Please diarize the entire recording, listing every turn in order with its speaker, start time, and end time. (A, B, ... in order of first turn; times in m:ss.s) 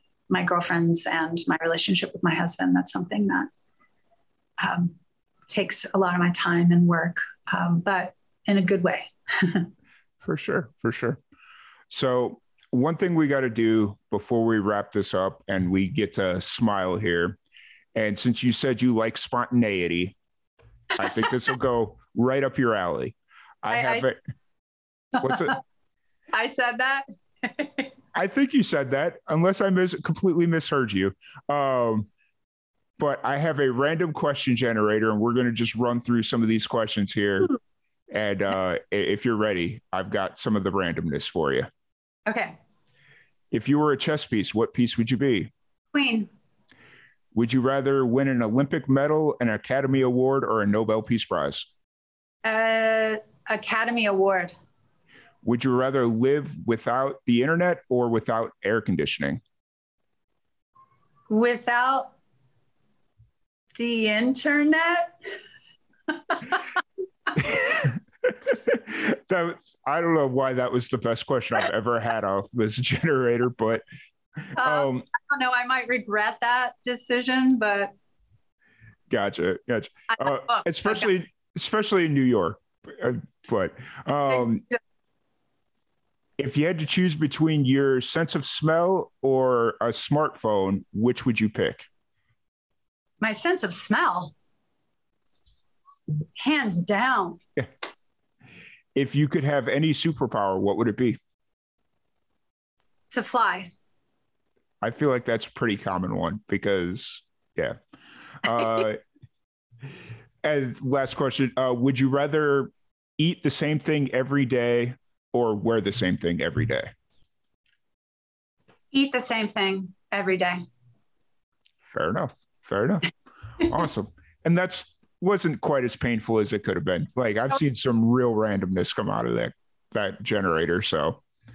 0:00.3-0:03.5 A
0:04.6-0:05.0 A
0:05.5-0:09.7 A
0:10.2-0:11.2 B
0:11.9-0:17.4 B
0:17.9-0:20.1 B
0:21.0-0:24.2 B
0:23.7-0:24.1 A
0:25.2-0:25.6 A
0:25.2-0:25.6 B
0:26.3-0:27.9 A
0:28.1-0:32.1 B
0:33.0-0:37.6 B
0:38.1-0:41.7 B
0:42.3-0:42.6 A
0:43.5-0:45.5 B
0:45.9-0:46.3 A
0:47.3-0:51.7 B
0:52.4-0:54.6 A
0:55.4-0:59.4 B
1:01.3-1:02.1 A
1:03.8-1:05.1 A
1:06.1-1:06.6 A
1:07.5-1:13.8 B
1:14.4-1:15.0 B
1:14.6-1:17.9 A
1:19.1-1:24.6 B
1:20.1-1:21.1 A
1:24.3-1:24.8 A
1:26.4-1:31.9 B
1:33.2-1:34.3 A
1:36.4-1:37.4 A
1:38.9-1:41.2 B
1:43.1-1:43.7 A
1:44.8-1:47.8 B
1:48.4-1:49.0 B
1:50.4-1:56.9 B
1:58.9-2:00.6 A
2:01.9-2:11.2 B